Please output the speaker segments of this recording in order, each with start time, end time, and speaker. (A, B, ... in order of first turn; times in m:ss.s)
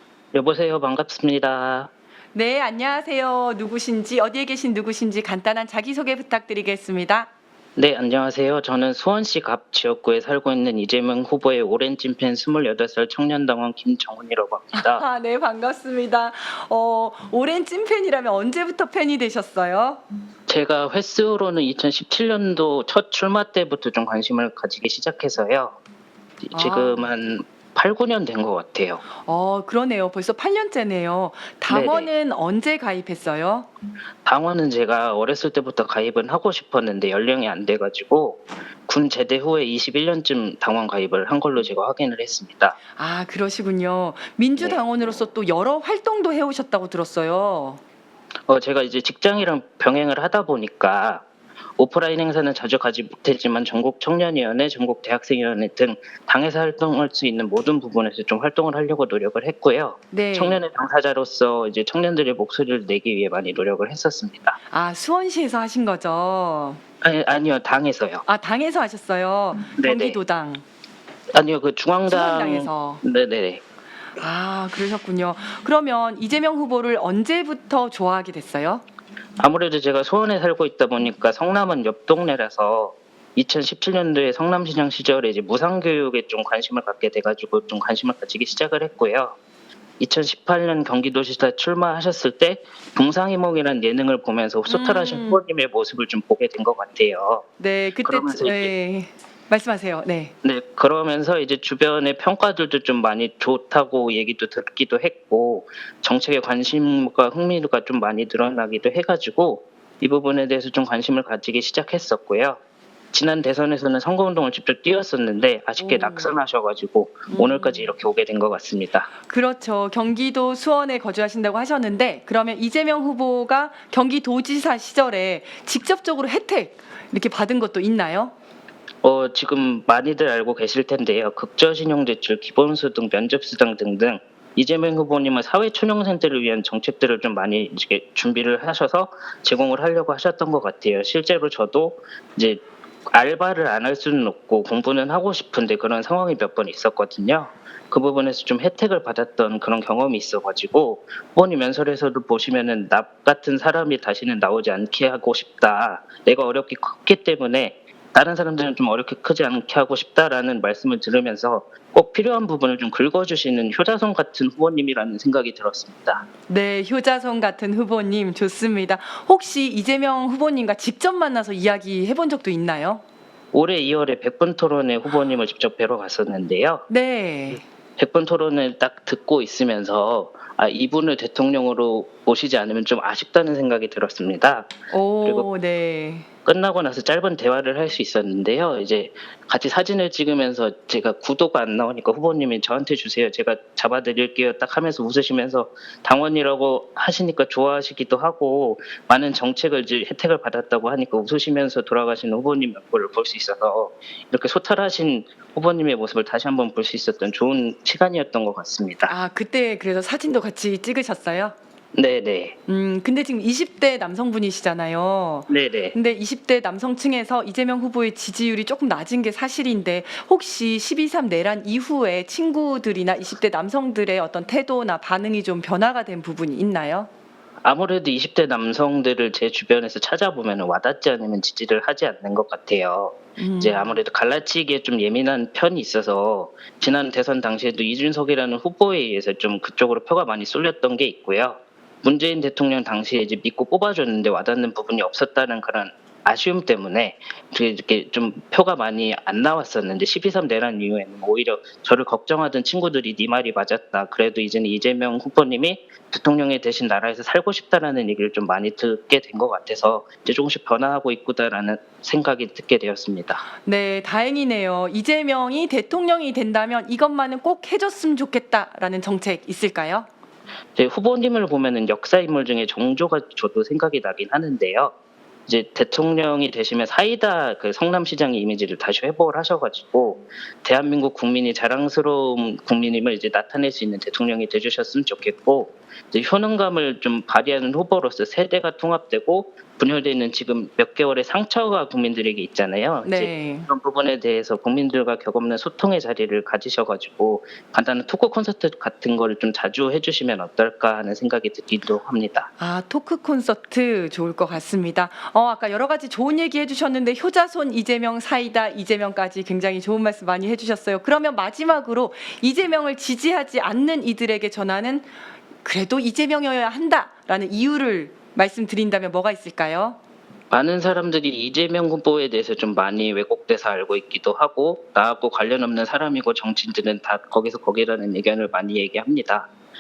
0:00.3-0:01.9 A
0:02.3-0:07.3 B
0:07.8-0:15.0 A
0:14.7-0:20.0 B
0:20.5-0:25.8 A
0:26.5-0:29.0 A
0:26.5-0:27.1 B
0:29.2-0:33.7 B
0:31.7-0:32.1 A
0:34.2-0:42.8 A
0:43.0-0:47.8 B
0:48.5-0:51.2 A
0:51.8-1:04.6 A
1:00.1-1:00.6 B
1:04.7-1:06.8 B
1:07.0-1:08.2 A
1:08.3-1:10.6 B
1:09.8-1:10.2 A
1:11.3-1:13.6 A
1:12.1-1:13.0 B
1:14.2-1:18.8 B
1:19.4-1:29.4 A
1:30.0-1:37.4 A
1:34.7-1:35.4 B
1:37.6-1:40.3 B
1:38.0-1:38.7 A
1:40.4-1:52.6 A
1:53.1-1:59.1 A
1:55.8-1:56.3 B
1:57.3-1:57.9 B
1:59.2-2:08.3 B
2:09.0-2:46.3 A
2:46.5-2:53.0 B
2:53.5-2:56.9 A
2:56.9-2:57.6 B
2:58.0-3:05.5 A
3:04.9-3:06.3 B
3:06.5-3:29.1 A
3:29.1-3:31.6 B
3:32.0-3:32.6 A
3:32.7-3:47.1 B
3:35.5-3:36.0 A
3:47.6-4:23.4 A
3:53.4-3:54.0 B
4:23.6-4:30.1 B
4:30.8-4:34.9 A
4:35.5-5:02.5 A
4:53.0-4:53.7 B
5:02.6-5:15.1 B
5:15.6-5:20.0 B
5:20.5-5:29.5 A